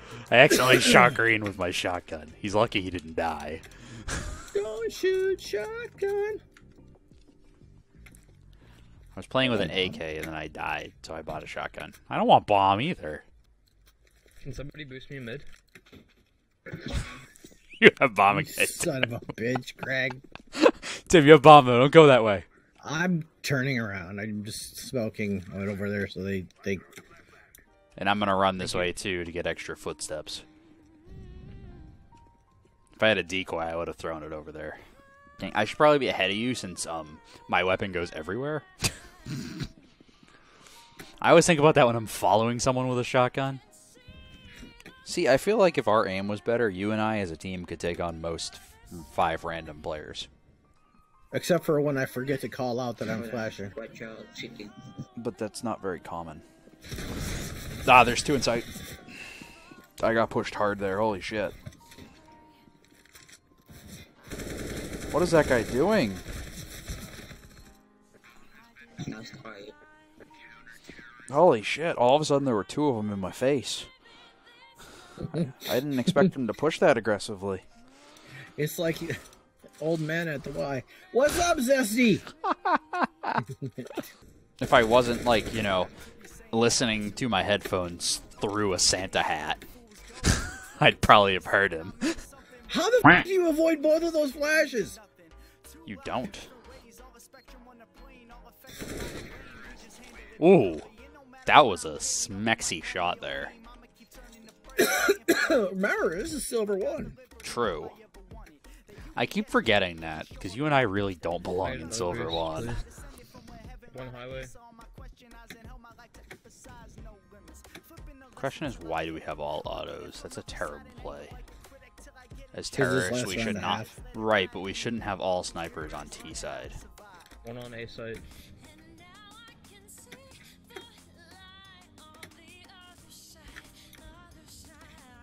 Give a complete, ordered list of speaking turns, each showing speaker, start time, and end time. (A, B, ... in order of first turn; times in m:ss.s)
0:00.1-0:04.4 A
0:04.5-0:06.4 B
0:09.2-0:13.2 A
0:09.4-0:10.0 B
0:14.4-0:15.5 C
0:17.8-0:19.1 A
0:18.3-0:20.2 B
0:20.6-0:22.4 A
0:22.8-0:26.8 B
0:28.0-0:30.4 A
0:33.0-0:34.8 A
0:35.4-0:38.7 A
0:39.3-0:39.6 A
0:41.2-0:43.6 A
0:45.0-0:50.3 A
0:51.3-0:53.7 B
0:53.0-0:54.9 D
0:55.2-0:56.4 A
0:57.8-0:58.7 A
1:00.0-1:01.6 A
1:05.1-1:06.2 A
1:09.0-1:09.7 D
1:11.3-1:13.9 A
1:15.3-1:17.6 A
1:15.3-1:16.3 B
1:18.6-1:19.2 B
1:19.8-1:22.3 B
1:22.5-1:23.4 A
1:23.4-1:24.0 B
1:24.6-1:25.9 A
1:26.5-1:29.6 A
1:30.2-1:32.0 A
1:32.7-1:35.0 B
1:35.8-1:36.5 A
1:40.4-1:40.9 A
1:41.5-1:43.6 A
1:44.8-1:47.2 B
1:47.4-1:48.0 A
1:49.2-1:52.8 A
1:51.6-1:52.9 C
1:53.9-1:54.6 C
1:58.4-2:01.4 A
2:02.5-2:06.8 A
2:02.7-2:03.9 B
2:07.4-2:08.2 C